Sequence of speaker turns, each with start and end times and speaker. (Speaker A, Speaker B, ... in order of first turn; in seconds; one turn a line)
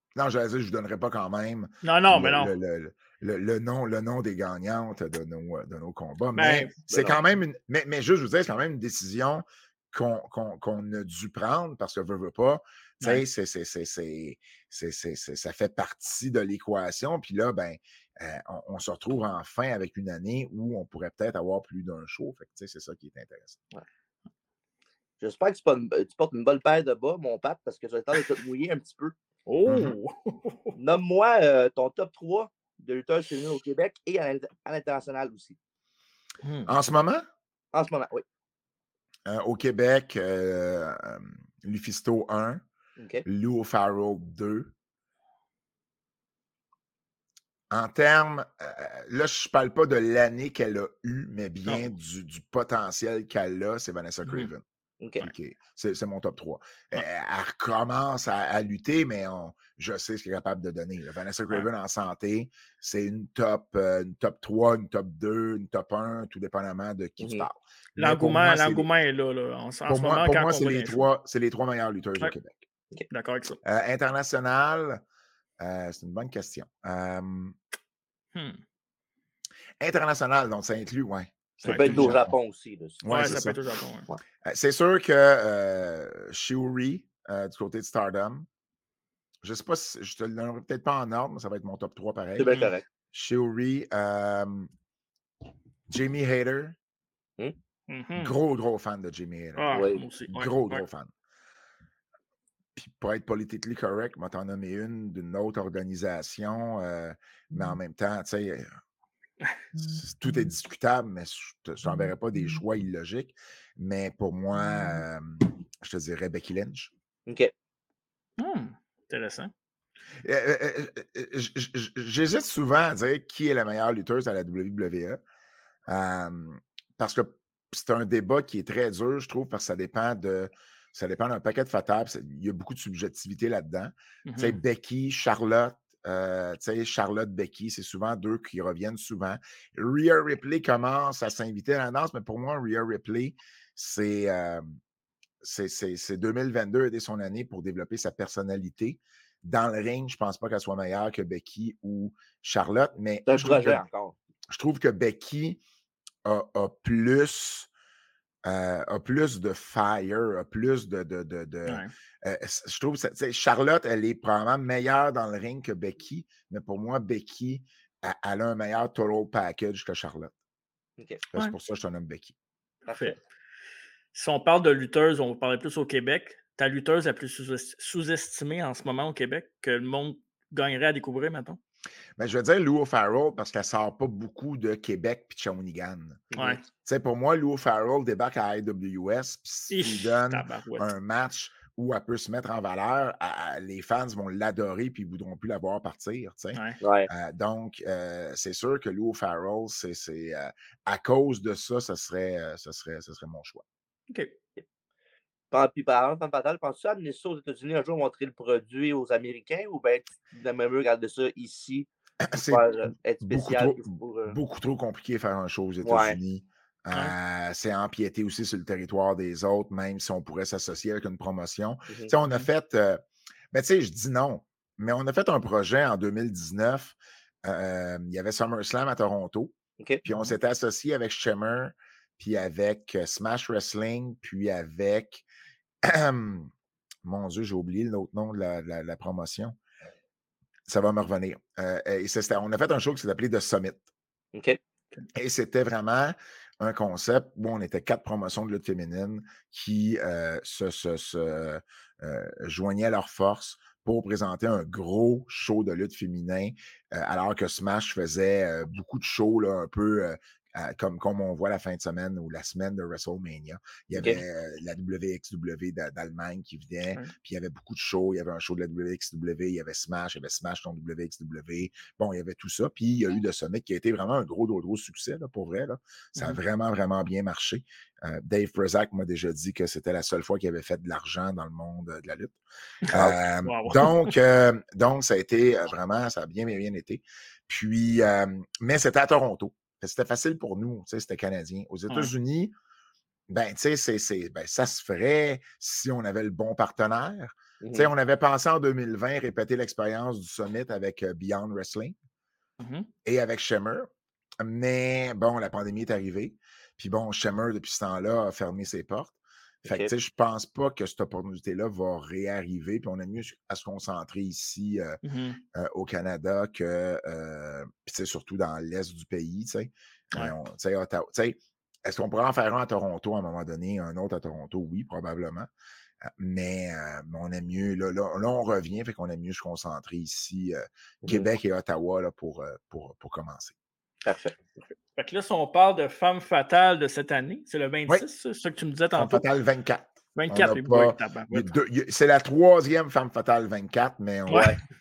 Speaker A: 0.1-23.6
Speaker B: 1.8-2.5
Speaker B: 6.3-6.7
Speaker C: 6.9-7.2
Speaker C: 25.2-29.1
Speaker B: 29.5-30.8
Speaker A: 29.7-29.9
Speaker C: 30.8-35.6
Speaker B: 36.4-36.7
Speaker A: 36.7-37.3
Speaker C: 37.7-38.2
Speaker A: 39.3-42.6
Speaker C: 43.0-43.2
Speaker A: 43.2-44.7
Speaker A: 47.7-54.6
Speaker C: 55.0-55.3
Speaker A: 55.2-68.9
Speaker C: 67.2-67.5
Speaker B: 68.0-71.1
Speaker A: 69.9-72.6
Speaker B: 73.1-73.6
Speaker A: 73.6-75.0
Speaker A: 75.6-77.6
Speaker B: 78.3-78.6
Speaker A: 79.8-82.3
Speaker B: 81.6-82.2
Speaker C: 81.7-83.0
Speaker A: 83.0-83.6
Speaker B: 83.1-84.1
Speaker A: 84.4-88.5
Speaker A: 89.4-92.6
Speaker C: 92.4-92.8
Speaker B: 92.5-92.7
Speaker A: 93.1-94.7
Speaker A: 95.9-96.8
Speaker B: 97.9-98.3
Speaker A: 98.2-101.1
Speaker B: 99.6-100.8
Speaker C: 99.7-100.0
Speaker A: 102.8-108.7
Speaker A: 109.8-116.9
Speaker C: 117.3-117.5
Speaker B: 118.4-119.5
Speaker A: 120.2-125.2
Speaker A: 125.9-144.8
Speaker B: 134.3-134.6
Speaker A: 145.4-153.8
Speaker C: 153.3-154.2
Speaker B: 153.4-153.7
Speaker A: 154.5-155.6
Speaker A: 156.2-157.7
Speaker A: 158.4-170.3
Speaker B: 161.7-161.9
Speaker C: 171.0-171.2
Speaker A: 171.3-172.3
Speaker C: 172.9-173.2
Speaker B: 172.9-173.2
Speaker B: 174.1-181.6
Speaker A: 182.2-186.3
Speaker C: 186.3-186.6
Speaker B: 186.4-186.6
Speaker A: 186.8-203.7
Speaker B: 189.7-190.9
Speaker B: 196.5-196.8
Speaker C: 196.8-197.1
Speaker C: 205.5-211.9
Speaker A: 212.2-235.2
Speaker C: 212.5-214.4
Speaker C: 215.8-216.2
Speaker C: 229.8-230.1
Speaker A: 235.8-236.5
Speaker A: 237.0-239.6
Speaker A: 240.7-243.8
Speaker A: 245.2-282.4
Speaker C: 263.9-264.2
Speaker B: 282.9-284.1
Speaker A: 282.9-292.5
Speaker A: 293.3-301.9
Speaker C: 297.6-297.9
Speaker B: 302.6-302.9
Speaker A: 303.1-303.9
Speaker A: 304.4-309.1
Speaker C: 309.6-309.9
Speaker A: 309.7-315.0
Speaker B: 315.0-315.4
Speaker A: 315.5-325.5
Speaker A: 326.1-333.5
Speaker C: 334.1-334.4
Speaker B: 335.0-339.2
Speaker A: 339.0-344.5
Speaker B: 340.1-341.5
Speaker B: 344.3-344.6
Speaker C: 344.3-344.6